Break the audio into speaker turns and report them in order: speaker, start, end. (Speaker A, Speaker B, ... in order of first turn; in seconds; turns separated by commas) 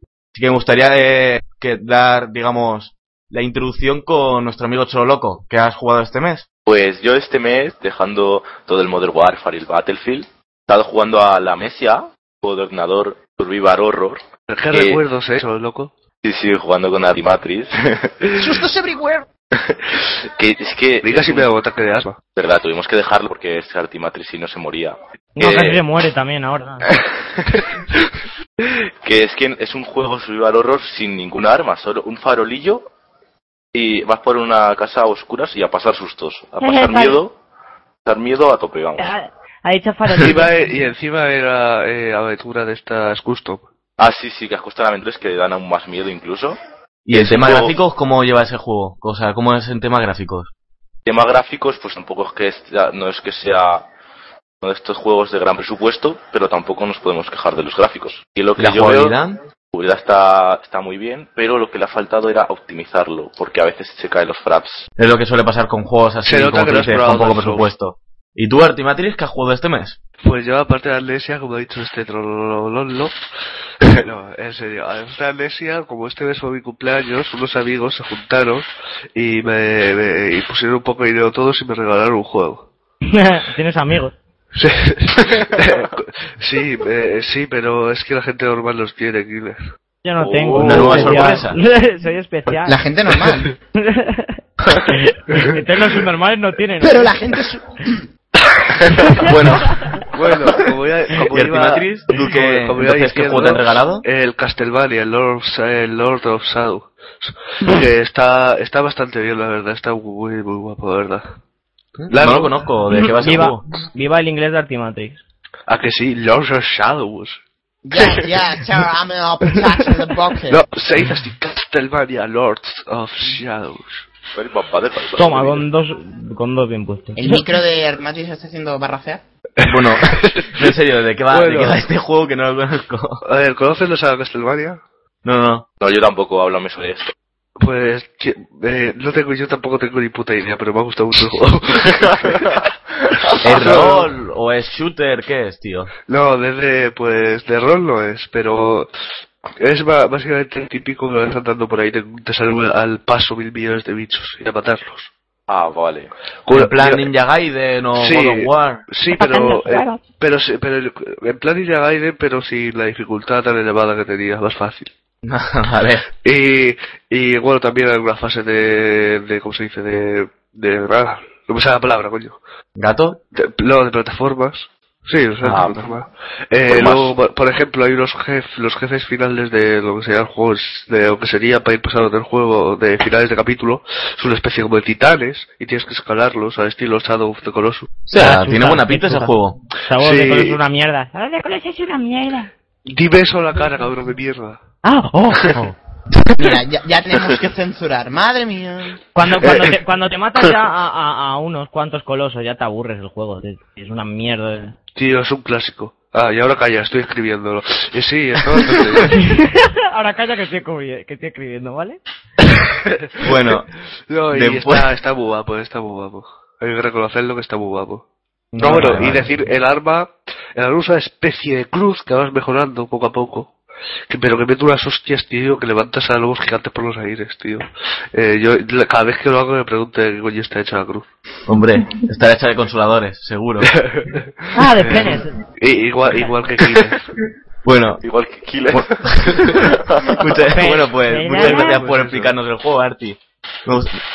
Speaker A: 0.3-6.5, Speaker B: 6.6-15.0, Speaker C: 14.5-15.9, Speaker B: 16.2-18.2, Speaker D: 18.4-19.3, Speaker B: 19.6-21.5, Speaker C: 21.0-22.2, Speaker B: 22.4-25.8, Speaker E: 25.4-26.9, Speaker B: 27.2-27.6, Speaker B: 29.0-32.9, Speaker B: 33.7-37.3, Speaker E: 36.6-37.2, Speaker B: 38.0-39.1, Speaker E: 39.0-40.5, Speaker A: 40.1-40.4, Speaker C: 40.2-43.6, Speaker B: 44.0-46.6, Speaker A: 47.1-50.5, Speaker B: 47.1-47.7, Speaker B: 51.1-53.9, Speaker B: 54.6-59.1, Speaker A: 58.6-59.4, Speaker B: 59.7-64.9, Speaker A: 65.0-70.0, Speaker C: 66.3-67.7, Speaker C: 70.2-73.1, Speaker C: 73.8-82.7, Speaker E: 83.0-84.2, Speaker C: 84.5-89.6, Speaker E: 90.0-92.8, Speaker B: 90.2-91.2, Speaker C: 90.6-91.2, Speaker A: 90.6-91.6, Speaker D: 92.7-93.5, Speaker E: 93.8-97.2, Speaker D: 96.8-98.1, Speaker C: 99.0-99.3, Speaker A: 99.2-99.9, Speaker E: 99.2-99.9, Speaker C: 100.1-111.3, Speaker A: 101.3-104.0, Speaker A: 112.0-113.6, Speaker C: 112.1-112.5, Speaker E: 113.1-115.2, Speaker C: 115.7-117.4, Speaker D: 117.8-120.7, Speaker C: 118.0-118.3, Speaker C: 120.5-124.1, Speaker B: 124.3-125.7, Speaker E: 125.1-127.4, Speaker D: 127.2-129.2, Speaker C: 129.6-130.8, Speaker A: 129.6-133.2, Speaker C: 131.3-131.8, Speaker C: 133.2-134.8, Speaker A: 135.2-135.7, Speaker B: 135.8-137.1, Speaker C: 137.6-142.5, Speaker C: 143.3-144.1, Speaker A: 143.4-145.9, Speaker C: 146.1-148.9, Speaker C: 149.6-155.1, Speaker B: 155.5-156.1, Speaker C: 156.5-157.1, Speaker A: 156.5-158.8, Speaker C: 158.0-164.9, Speaker E: 159.1-160.0, Speaker A: 165.2-166.1, Speaker C: 166.2-172.4, Speaker A: 172.8-173.2, Speaker C: 173.3-188.0, Speaker B: 175.4-175.9, Speaker B: 176.7-177.1, Speaker A: 188.1-189.6, Speaker E: 188.2-189.3, Speaker E: 189.8-192.5, Speaker C: 190.0-190.6, Speaker C: 192.9-194.6, Speaker E: 194.8-195.7, Speaker D: 196.4-199.0, Speaker E: 199.1-204.8, Speaker C: 204.9-209.3, Speaker E: 209.2-212.0, Speaker C: 212.6-213.4, Speaker A: 213.2-213.7, Speaker C: 214.1-218.1, Speaker A: 214.3-214.9, Speaker A: 218.5-219.3, Speaker C: 218.6-223.5, Speaker C: 224.1-231.1, Speaker A: 231.5-233.7, Speaker C: 233.8-237.0, Speaker E: 234.5-235.4, Speaker A: 237.6-238.0, Speaker B: 238.0-240.4, Speaker A: 238.7-244.0, Speaker E: 240.5-241.8, Speaker C: 241.3-242.3